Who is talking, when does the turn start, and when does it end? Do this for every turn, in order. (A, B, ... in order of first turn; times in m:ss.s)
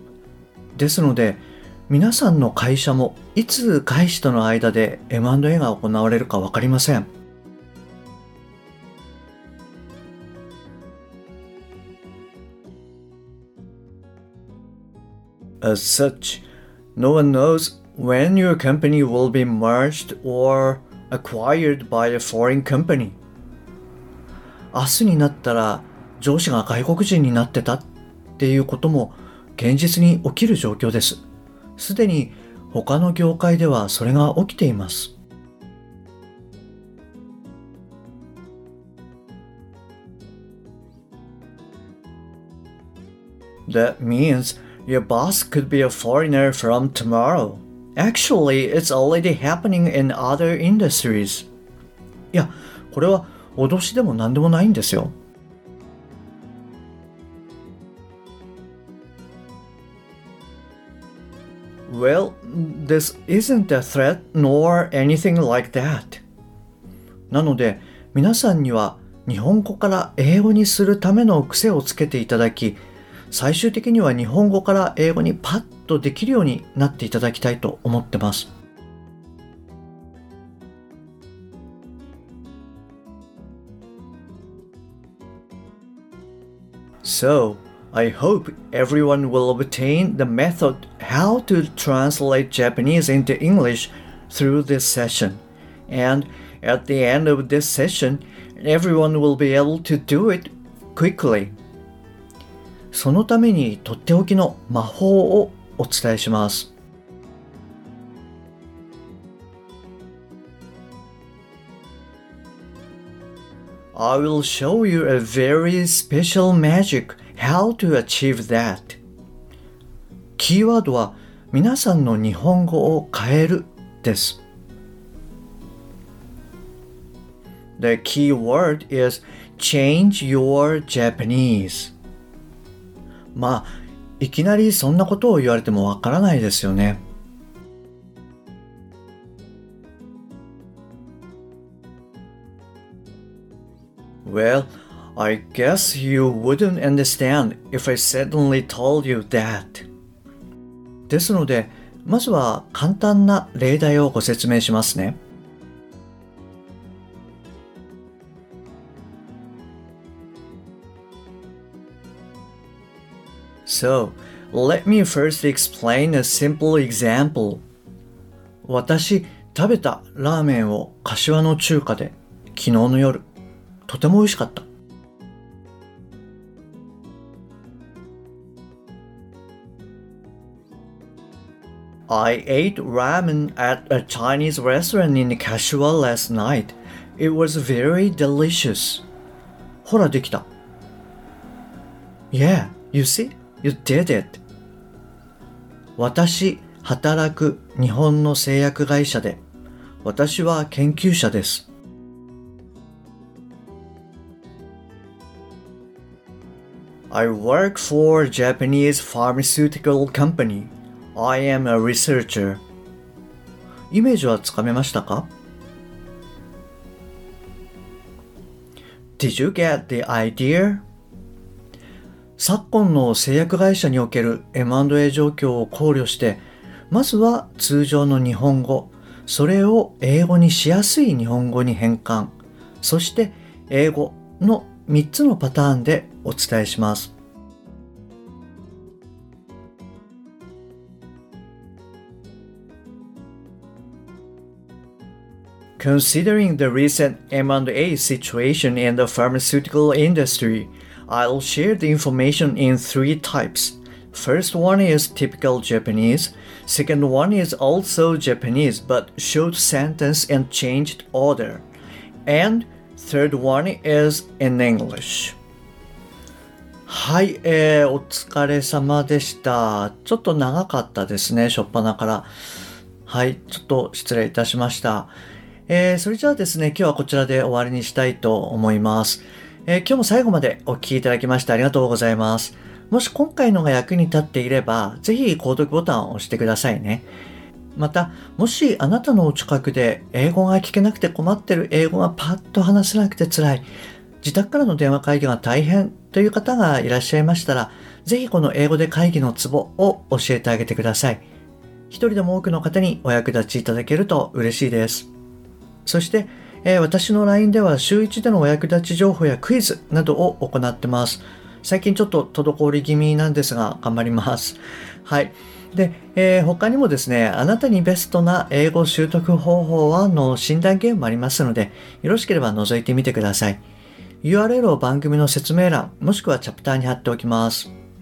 0:00.7-0:07.1 A
0:15.6-0:16.4 A
0:17.0-0:23.2 A
0:24.7-0:27.8 A
0:28.4-0:31.2 A
0:31.8-0:35.1 A
0:43.7-0:51.5 A
0:52.3-0:55.1 A
1:01.8-1:06.2 A
1:07.3-1:12.8 A
1:13.3-1:18.5 A
1:27.0-1:41.5 A
1:42.9-1:46.7 A
1:53.9-1:59.0 A
2:00.4-2:04.4 A
2:07.8-2:11.9 A
2:13.3-2:17.0 A
2:24.2-2:29.9 A
2:31.1-2:35.2 A
2:43.6-2:47.6 A
2:48.6-2:53.2 A
2:53.8-2:54.6 A
3:02.1-3:09.0 A
3:09.8-3:10.5 A
3:12.3-3:14.4 A
3:16.0-3:19.4 A
3:20.0-3:21.6 A
3:27.1-3:32.6 A
3:33.9-3:35.3 A
3:39.2-3:40.8 A
3:42.4-3:57.1 A
4:05.8-4:21.6 A
4:22.2-4:25.4 A
4:26.9-4:32.3 A
4:33.0-4:35.1 A
4:35.7-4:47.0 A
4:47.7-4:53.6 A
4:54.2-5:01.2 A
5:01.9-5:05.1 A
5:05.8-5:23.6 A
5:24.2-5:27.7 A